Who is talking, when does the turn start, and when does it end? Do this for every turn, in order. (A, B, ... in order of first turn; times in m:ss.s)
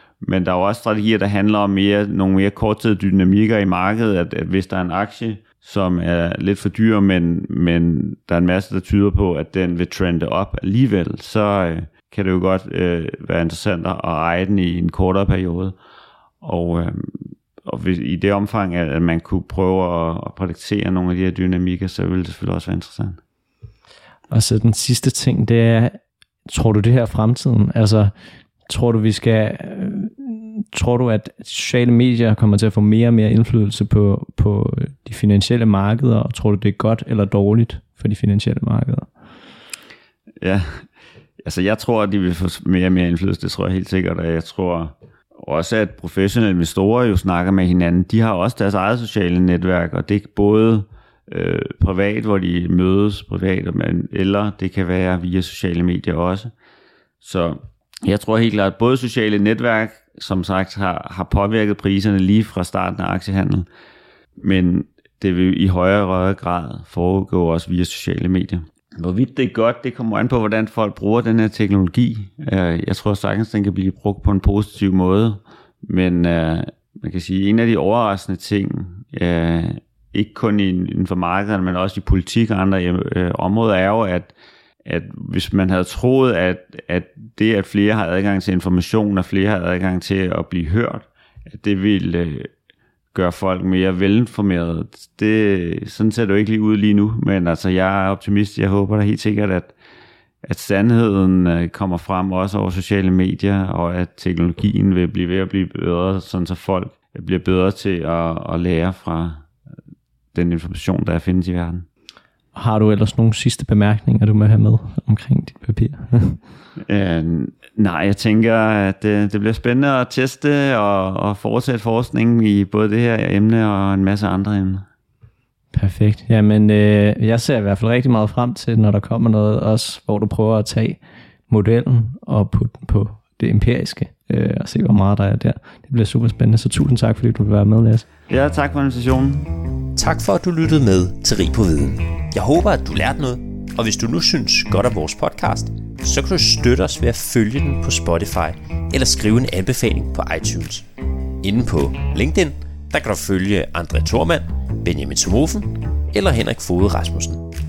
0:00.2-0:15.8 A
0:16.4-0:23.2 A
0:24.3-0:28.1 B
0:28.7-0:39.1 B
0:40.4-0:40.8 A
0:41.4-0:56.5 A
0:57.2-1:03.7 A
1:04.4-1:24.3 A
1:24.8-1:32.5 A
1:33.1-1:39.7 A
1:40.4-1:49.4 A
1:50.3-1:51.9 A
1:52.6-1:56.4 B
1:56.8-2:04.8 A
2:05.7-2:18.0 B
2:18.3-2:19.6 A
2:20.0-2:30.9 C
2:31.4-2:37.4 C